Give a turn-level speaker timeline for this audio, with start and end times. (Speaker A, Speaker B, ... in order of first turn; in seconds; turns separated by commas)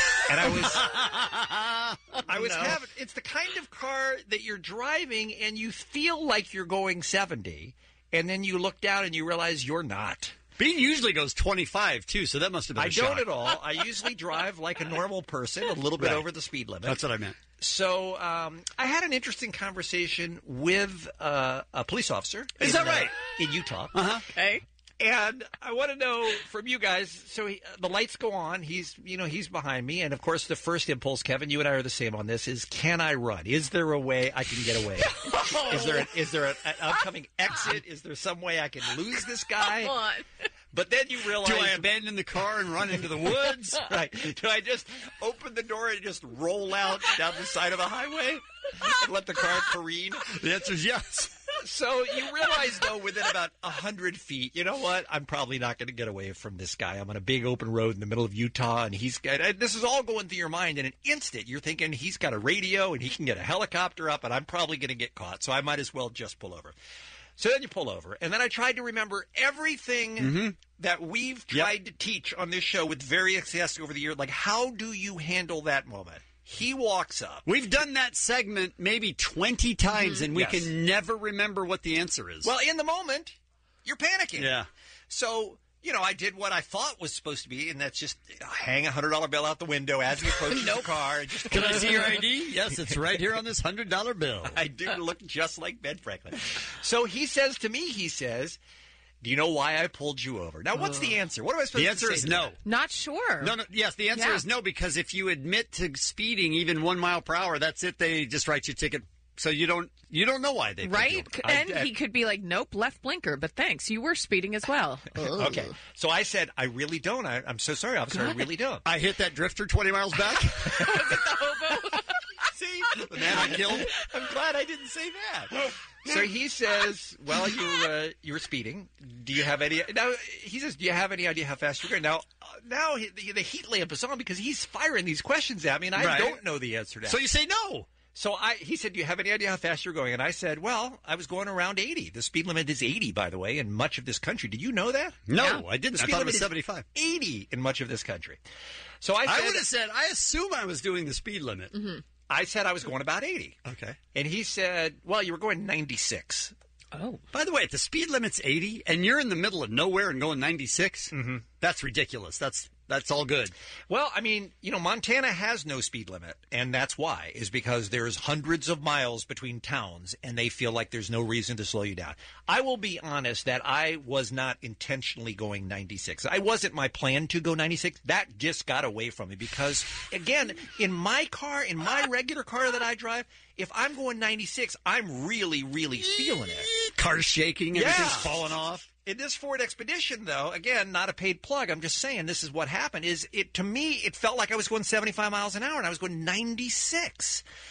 Speaker A: 0.2-0.9, Speaker B: 0.4-2.8, Speaker A: 2.2-10.4, Speaker B: 10.6-13.6, Speaker A: 12.7-17.0, Speaker B: 15.9-16.3, Speaker B: 16.8-17.4, Speaker A: 17.6-24.2, Speaker B: 22.6-23.1, Speaker B: 23.9-24.2, Speaker C: 24.3-24.6, Speaker A: 25.0-40.0, Speaker C: 35.4-35.9, Speaker C: 39.8-40.2, Speaker A: 40.7-42.0, Speaker B: 41.4-43.9, Speaker A: 43.7-50.3, Speaker B: 50.3-51.3, Speaker A: 51.5-66.7, Speaker A: 67.4-77.5, Speaker B: 70.2-70.6, Speaker B: 71.5-71.7, Speaker B: 77.5-82.5, Speaker C: 79.9-80.2, Speaker A: 80.3-80.7, Speaker A: 82.4-93.0, Speaker B: 84.3-84.7, Speaker B: 91.4-94.6, Speaker A: 94.5-98.6, Speaker A: 99.2-102.5, Speaker B: 101.7-102.6, Speaker C: 102.6-103.6, Speaker B: 103.4-111.4, Speaker C: 104.1-104.5, Speaker C: 110.8-115.4, Speaker A: 111.4-111.9, Speaker A: 115.2-118.9, Speaker C: 118.1-118.4, Speaker B: 118.8-120.8, Speaker C: 120.7-122.1, Speaker A: 122.5-137.3, Speaker B: 122.9-124.0, Speaker B: 135.9-136.4, Speaker B: 137.0-137.9, Speaker A: 138.1-145.2, Speaker B: 145.3-146.8, Speaker C: 145.3-145.6, Speaker A: 145.9-148.4, Speaker A: 149.0-149.7, Speaker B: 149.2-151.7, Speaker C: 151.7-152.0, Speaker A: 152.3-153.6, Speaker B: 153.6-154.0, Speaker A: 154.1-156.5, Speaker C: 156.9-157.2, Speaker B: 157.3-163.5, Speaker A: 161.1-161.4, Speaker A: 163.9-186.7, Speaker B: 186.6-188.9, Speaker A: 187.7-197.4